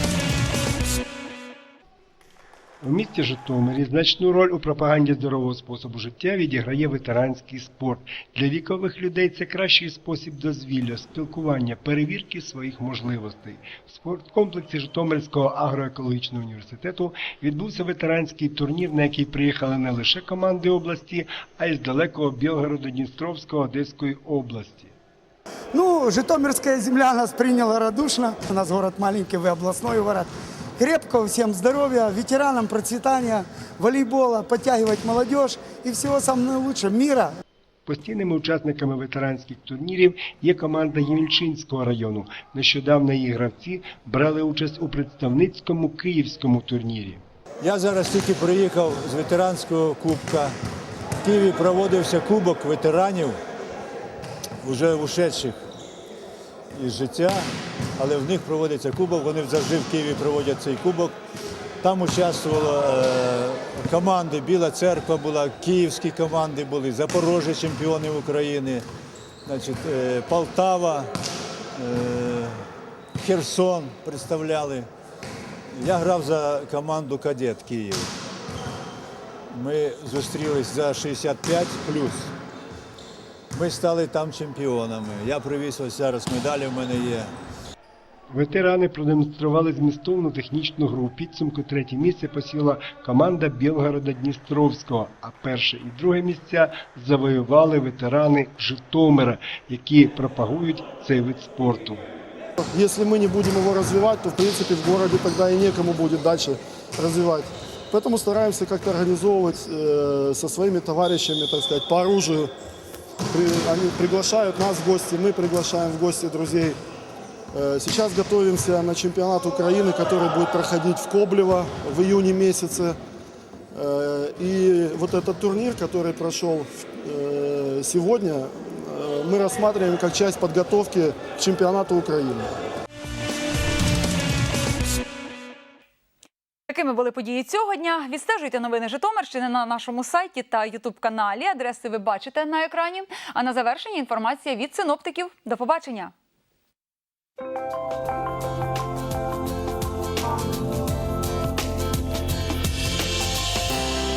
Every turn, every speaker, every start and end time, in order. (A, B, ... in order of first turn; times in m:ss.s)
0:02.8-0:24.9 A
0:25.7-0:37.3 B
0:37.8-0:47.2 A
0:47.6-0:50.5 C
0:51.3-0:53.3 C
0:54.7-0:55.5 C
0:56.9-0:57.4 C
0:58.0-1:01.1 C
1:01.9-1:08.8 C
1:09.6-1:11.1 C
1:11.8-1:12.5 C
1:13.3-1:14.8 C
1:15.9-1:18.0 C
1:19.7-1:21.7 C
1:23.6-1:27.2 C
1:28.3-1:42.0 A
1:42.6-1:52.5 D
1:53.3-1:56.8 D
1:57.5-2:03.0 D
2:03.7-2:12.5 D
2:16.7-2:26.1 E